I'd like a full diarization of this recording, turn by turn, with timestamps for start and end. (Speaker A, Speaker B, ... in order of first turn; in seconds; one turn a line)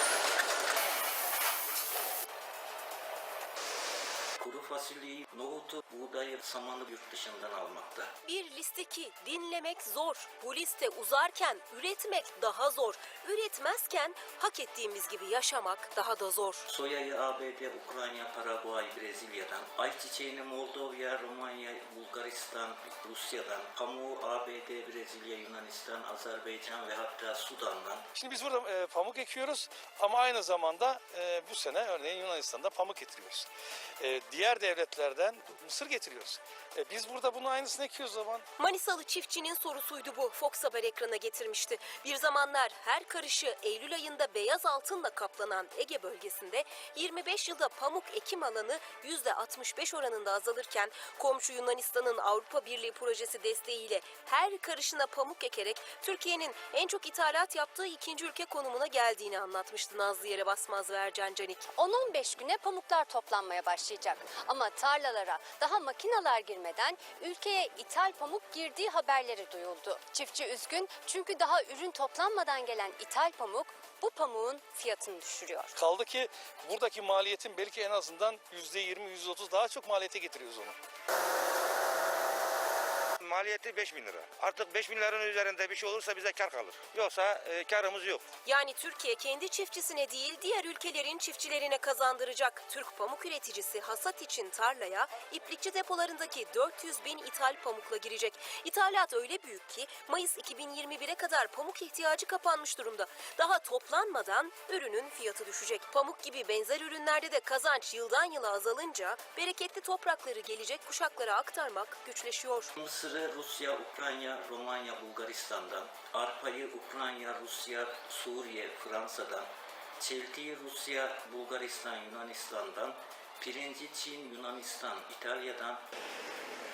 Speaker A: 4.4-8.1
Speaker B: 8.2-16.6
Speaker A: 16.7-28.1
Speaker C: 28.1-33.5
Speaker C: 34.0-38.5
Speaker B: 38.6-61.7
Speaker D: 61.8-75.7
Speaker C: 75.8-80.8
Speaker E: 83.2-88.3
Speaker B: 88.5-112.7
Speaker A: 112.8-119.5
Speaker A: 120.0-125.8